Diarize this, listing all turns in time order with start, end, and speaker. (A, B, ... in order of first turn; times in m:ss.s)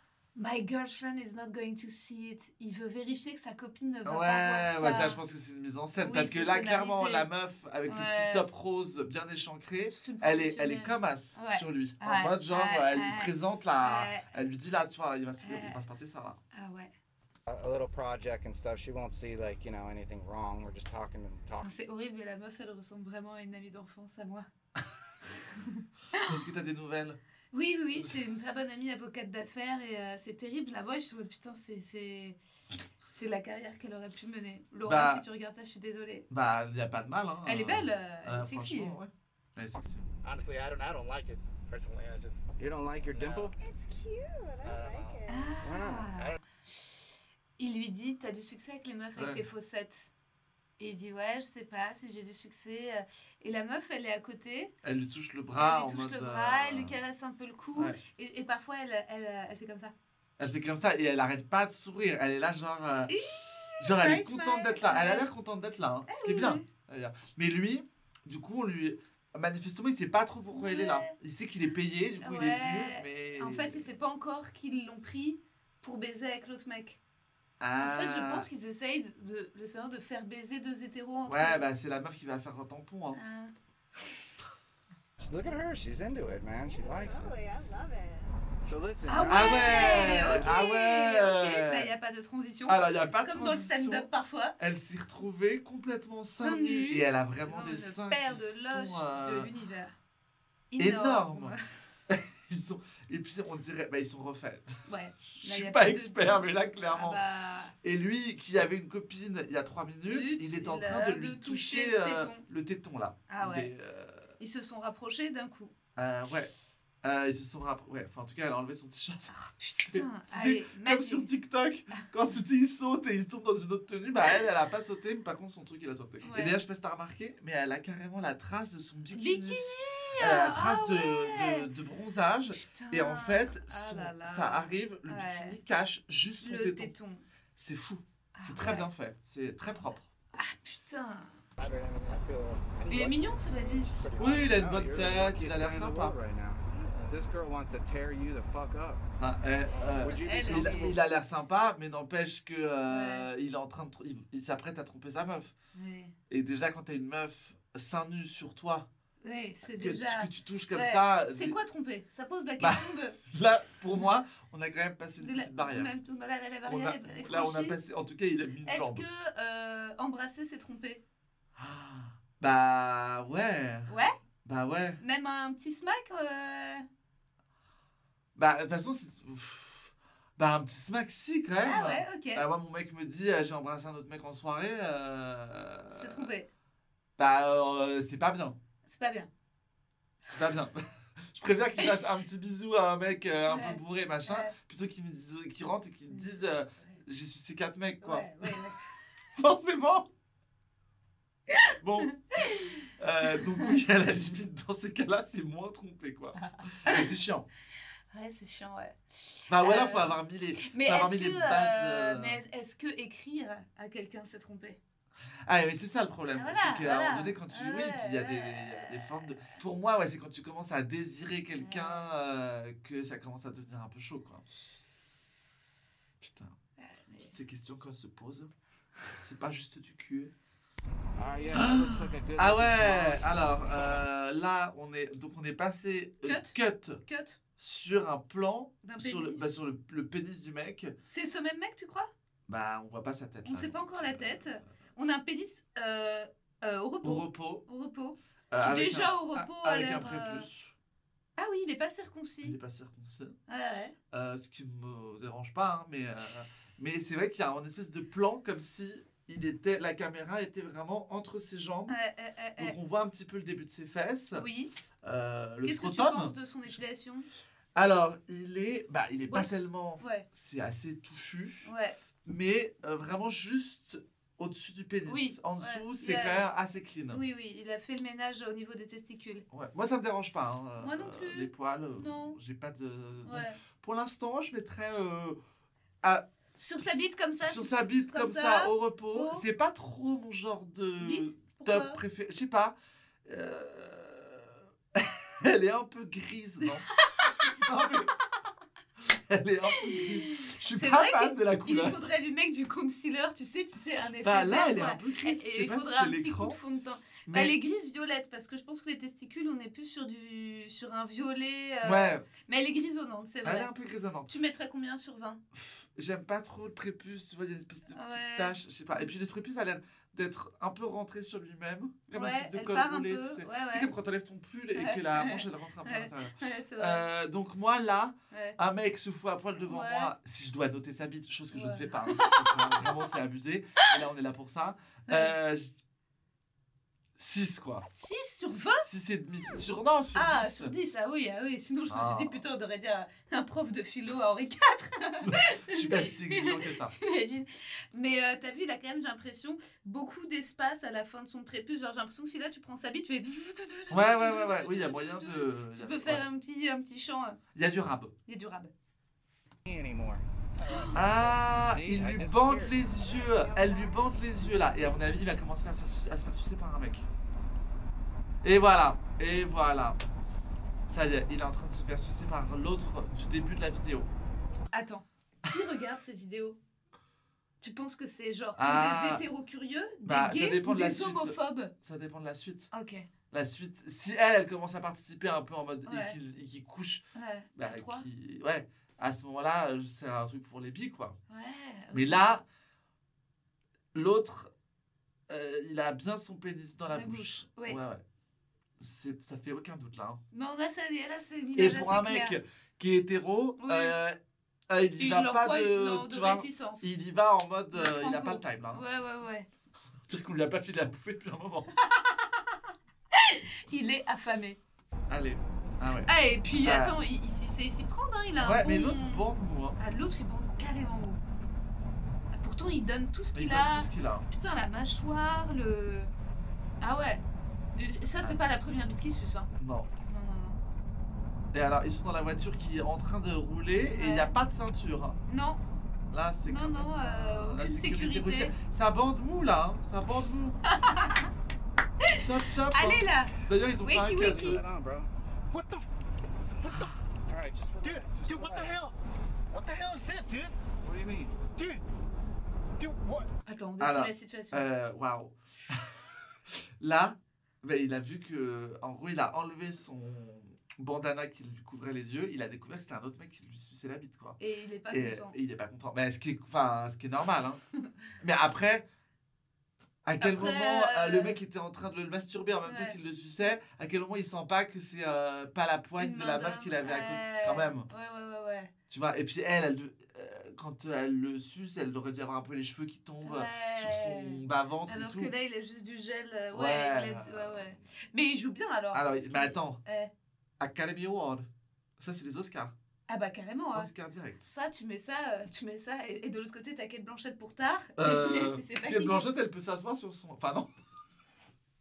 0:00.4-0:05.2 A
0:04.0-0:16.4 B
0:06.0-0:07.3 A
0:07.9-0:08.4 A
0:09.9-0:14.3 A
0:15.4-0:15.8 A
0:16.5-0:16.9 A
0:17.5-0:21.6 C
0:21.6-0:24.5 A
0:25.6-0:26.3 A
0:26.1-0:27.2 B
0:27.5-0:32.4 A
0:33.1-0:36.3 A
0:34.8-0:35.2 B
0:36.3-0:40.1 B
0:37.4-0:39.0 A
0:40.2-0:42.5 D
0:42.6-0:43.6 C
0:43.2-0:43.5 D
0:43.6-0:45.7 E
0:44.6-0:45.2 D
0:45.3-0:46.3 A
0:45.6-0:46.1 C
0:47.6-0:50.1 A
0:49.2-0:49.4 B
0:50.8-0:54.7 A
0:54.8-0:57.0 B
0:55.6-0:59.9 A
0:57.7-0:58.0 B
1:00.4-1:03.1 B
1:03.1-1:05.2 A
1:03.8-1:13.9 B
1:06.1-1:06.6 A
1:10.5-1:11.1 A
1:12.2-1:17.0 A
1:17.6-1:18.5 B
1:17.8-1:21.6 A
1:21.3-1:23.2 B
1:23.1-1:23.5 A
1:25.2-1:27.3 C
1:26.7-1:28.3 E
1:28.6-1:30.4 C
1:29.0-1:34.6 A
1:29.2-1:31.9 B
1:32.6-1:39.5 B
1:36.4-1:39.9 A
1:40.7-1:41.6 A
1:40.8-1:41.5 B
1:42.1-1:44.8 B
1:44.9-1:47.7 A
1:45.3-1:47.2 B
1:47.8-1:54.3 B
1:50.1-1:52.4 A
1:53.3-1:53.7 A
1:54.4-1:55.7 A
1:56.0-1:56.5 B
1:57.0-2:16.9 B
1:59.3-2:01.3 A
2:06.2-2:06.6 A
2:09.1-2:11.7 A
2:12.6-2:15.6 A
2:16.4-2:17.2 A
2:17.6-2:20.1 B
2:18.4-2:18.9 A
2:20.4-2:21.4 A
2:21.6-2:23.1 D
2:22.1-2:29.0 C
2:22.9-2:24.0 A
2:24.0-2:24.4 D
2:24.2-2:26.2 B
2:29.2-2:35.5 B
2:29.7-2:31.1 C
2:30.2-2:30.9 A
2:32.9-2:33.3 A
2:35.7-2:36.1 A
2:36.3-2:38.9 B
2:39.2-2:43.2 A
2:39.6-2:41.6 B
2:42.6-2:45.9 B
2:45.2-2:47.8 A
2:46.6-2:49.0 B
2:48.6-2:51.0 A
2:51.6-2:53.9 B
2:53.9-2:54.1 A
2:54.4-2:55.0 B
2:55.0-2:56.8 A
2:58.4-3:06.3 B
3:01.6-3:02.4 A
3:05.9-3:06.5 A
3:07.2-3:08.6 B
3:08.8-3:09.3 A
3:10.3-3:10.8 B
3:11.3-3:18.6 B
3:13.5-3:14.5 A
3:16.1-3:17.0 A
3:18.0-3:18.8 A
3:19.3-3:20.1 B
3:21.5-3:22.8 A
3:21.8-3:27.5 B
3:23.3-3:23.7 A
3:26.4-3:27.0 A
3:28.1-3:34.8 A
3:29.5-3:32.4 B
3:35.4-3:44.6 B
3:36.3-3:39.2 A
3:41.6-3:42.1 A
3:46.2-3:46.5 B
3:46.8-3:47.3 A
3:47.3-3:48.5 B
3:49.2-3:50.3 B
3:51.2-3:53.4 C
3:51.5-3:57.0 B
3:56.2-3:57.4 A
3:57.6-4:00.9 B
3:58.8-3:59.5 A
4:01.1-4:02.1 A
4:02.5-4:04.7 B
4:03.4-4:10.5 A
4:07.0-4:07.6 B
4:08.5-4:10.7 B
4:11.4-4:12.6 A
4:12.4-4:13.4 B
4:13.5-4:13.9 A
4:14.1-4:22.0 B
4:21.9-4:22.8 A
4:22.6-4:24.4 B
4:24.3-4:24.7 A
4:25.0-4:26.8 B
4:25.6-4:27.3 A
4:27.7-4:31.7 B
4:29.3-4:30.2 A
4:31.6-4:32.0 A
4:32.2-4:37.2 B
4:35.0-4:36.5 A
4:37.1-4:39.4 A
4:39.5-4:45.4 B
4:40.8-4:42.4 A
4:43.2-4:43.6 A
4:46.5-4:49.4 A
4:46.8-4:56.9 B
4:51.0-4:52.0 A
4:56.9-4:57.9 A
4:57.4-4:58.2 B
4:59.0-5:02.0 B
4:59.7-5:13.7 A
5:04.2-5:06.6 B
5:07.3-5:07.5 B
5:11.8-5:12.3 B
5:13.4-5:14.3 B
5:14.3-5:15.4 A
5:15.5-5:35.8 B
5:17.9-5:18.6 A
5:22.1-5:23.9 A
5:24.8-5:27.0 A
5:28.3-5:28.6 A
5:29.6-5:30.1 A
5:31.5-5:33.1 A
5:35.1-5:35.3 A
5:37.2-5:37.9 B
5:37.9-5:38.9 A
5:38.8-5:40.7 B
5:40.1-5:57.4 A
5:41.9-5:42.4 B
5:45.3-5:47.0 B
5:53.9-5:56.2 B
5:57.5-5:58.1 B
5:58.3-5:58.7 A
5:59.6-6:03.9 C
6:00.9-6:07.1 B
6:08.4-6:10.0 B
6:10.9-6:14.1 B
6:14.7-6:16.6 A
6:17.6-6:21.7 A
6:18.6-6:19.2 B
6:20.0-6:22.7 B
6:22.7-6:23.1 A
6:23.3-6:27.0 B
6:25.8-6:26.2 A
6:27.1-6:28.0 A
6:27.6-6:31.2 B
6:31.3-6:32.1 A
6:31.9-6:32.4 B
6:33.9-6:34.5 B
6:35.3-6:38.0 B
6:36.9-6:37.8 A
6:38.8-6:40.2 B
6:40.3-6:42.4 A
6:41.6-6:44.2 B
6:43.6-6:44.0 A
6:44.7-6:48.8 B
6:45.0-6:46.9 A
6:47.7-6:49.5 A
6:50.1-6:51.7 B
6:51.8-6:52.5 A
6:53.1-6:54.6 A
6:55.1-6:57.0 B
6:56.1-6:59.2 A
6:58.4-6:59.8 B
6:59.8-7:01.2 A
7:02.3-7:06.1 A
7:03.3-7:04.3 B
7:06.8-7:07.2 A
7:07.8-7:09.5 A
7:09.6-7:09.9 B
7:10.0-7:10.6 A
7:11.5-7:15.2 B
7:13.9-7:14.3 A
7:15.3-7:15.6 A
7:16.1-7:20.6 B
7:16.4-7:18.5 A
7:20.6-7:21.3 A
7:22.0-7:24.6 A
7:22.1-7:24.6 B
7:24.1-7:25.1 C
7:25.5-7:25.9 D
7:27.3-7:28.8 C
7:27.8-7:28.9 D
7:29.5-7:30.5 D
7:30.8-7:31.5 C
7:31.5-7:31.8 D
7:32.8-7:33.3 D
7:33.4-7:34.6 A
7:33.8-7:36.0 B
7:36.5-7:44.4 B
7:44.4-7:45.4 A
7:44.9-7:47.6 B
7:48.2-7:48.8 B
7:50.0-7:57.9 B
7:50.2-7:51.4 A
7:52.6-7:53.0 A
7:56.0-7:58.7 A
7:58.9-8:05.3 B
8:03.2-8:10.1 A
8:06.5-8:07.8 B
8:08.9-8:09.8 B
8:10.6-8:11.5 B
8:12.0-8:12.7 B
8:13.1-8:13.9 A
8:13.8-8:14.5 B
8:14.4-8:19.3 A
8:18.0-8:20.7 B